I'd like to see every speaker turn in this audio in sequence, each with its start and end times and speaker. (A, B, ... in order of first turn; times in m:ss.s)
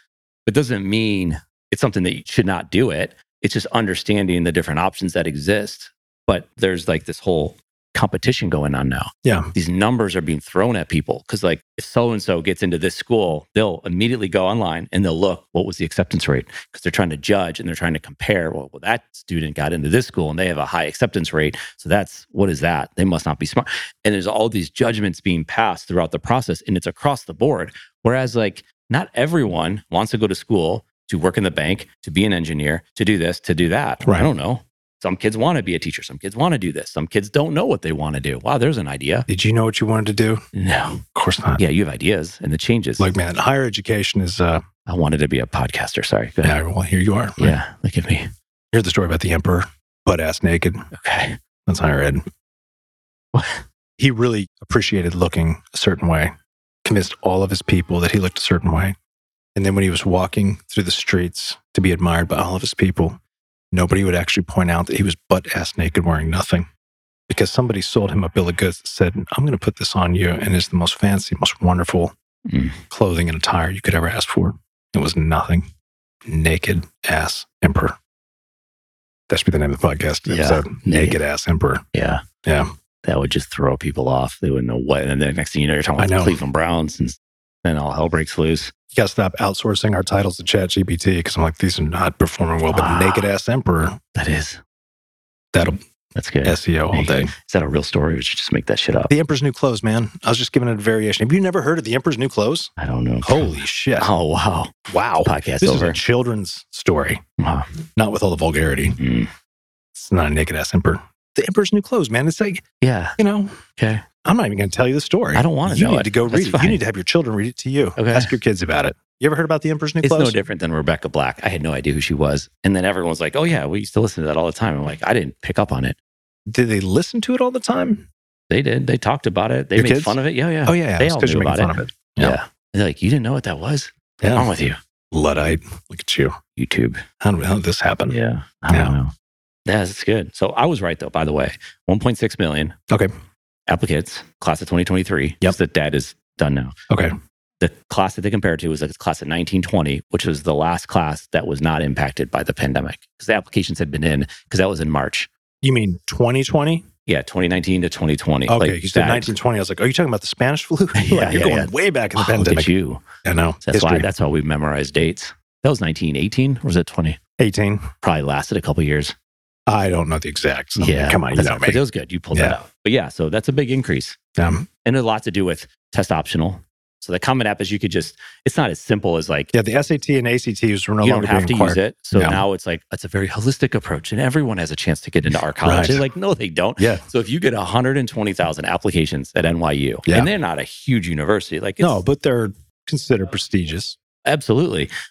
0:00.5-0:39.3 A
0:09.2-0:09.5 B
0:34.0-0:34.3 B
0:39.3-0:40.4 B
0:40.5-0:41.0 A
0:41.1-0:41.6 B
0:41.6-0:43.1 A
0:43.0-0:44.6 B
0:44.9-0:46.6 A
0:46.4-0:47.6 B
0:47.4-0:48.3 A
0:48.7-0:50.8 B
0:50.9-0:51.4 A
0:51.7-0:52.2 B
0:53.3-0:53.6 A
0:54.0-0:56.3 B
0:56.8-0:59.0 B
0:59.6-1:03.2 B
1:03.7-1:06.7 B
1:07.3-1:12.1 B
1:12.5-1:12.8 A
1:12.9-1:15.7 B
1:16.3-1:18.0 B
1:19.3-1:21.8 B
1:20.3-1:21.2 A
1:21.9-1:22.2 A
1:22.4-1:22.7 B
1:23.0-1:28.7 A
1:26.0-1:26.4 B
1:28.9-1:34.0 B
1:32.7-1:33.2 A
1:34.2-1:34.6 A
1:35.5-1:35.8 B
1:36.2-1:39.1 A
1:36.4-1:37.3 B
1:39.1-1:42.7 B
1:42.8-1:46.0 A
1:43.2-1:44.1 B
1:44.9-1:47.2 B
1:47.4-1:47.7 A
1:48.0-1:49.0 B
1:49.0-1:49.3 A
1:50.0-1:52.6 B
1:52.8-1:53.2 A
1:53.2-1:53.6 B
1:53.8-1:54.0 A
1:54.2-2:00.4 B
1:55.4-1:56.8 A
1:58.0-1:58.3 A
2:00.0-2:06.0 A
2:06.5-2:08.1 B
2:08.5-2:14.8 A
2:09.8-2:12.4 B
2:14.2-2:14.5 B
2:15.1-2:16.4 B
2:16.6-2:17.0 A
2:17.2-2:18.2 B
2:18.1-2:19.1 A
2:19.7-2:22.8 A
2:23.7-2:26.7 A
2:27.6-2:35.3 A
2:35.6-2:36.9 B
2:37.1-2:39.3 A
2:38.5-2:42.7 B
2:41.0-2:43.0 A
2:43.2-2:44.1 B
2:43.6-2:47.2 A
2:47.4-2:47.9 B
2:48.0-2:49.2 A
2:49.7-2:51.8 B
2:50.8-2:54.2 A
2:52.3-2:52.6 B
2:54.4-2:54.7 B
2:54.8-2:59.5 A
2:59.5-3:02.4 B
3:01.0-3:12.0 A
3:05.6-3:06.0 B
3:06.8-3:07.0 B
3:11.8-3:14.0 B
3:14.2-3:14.9 A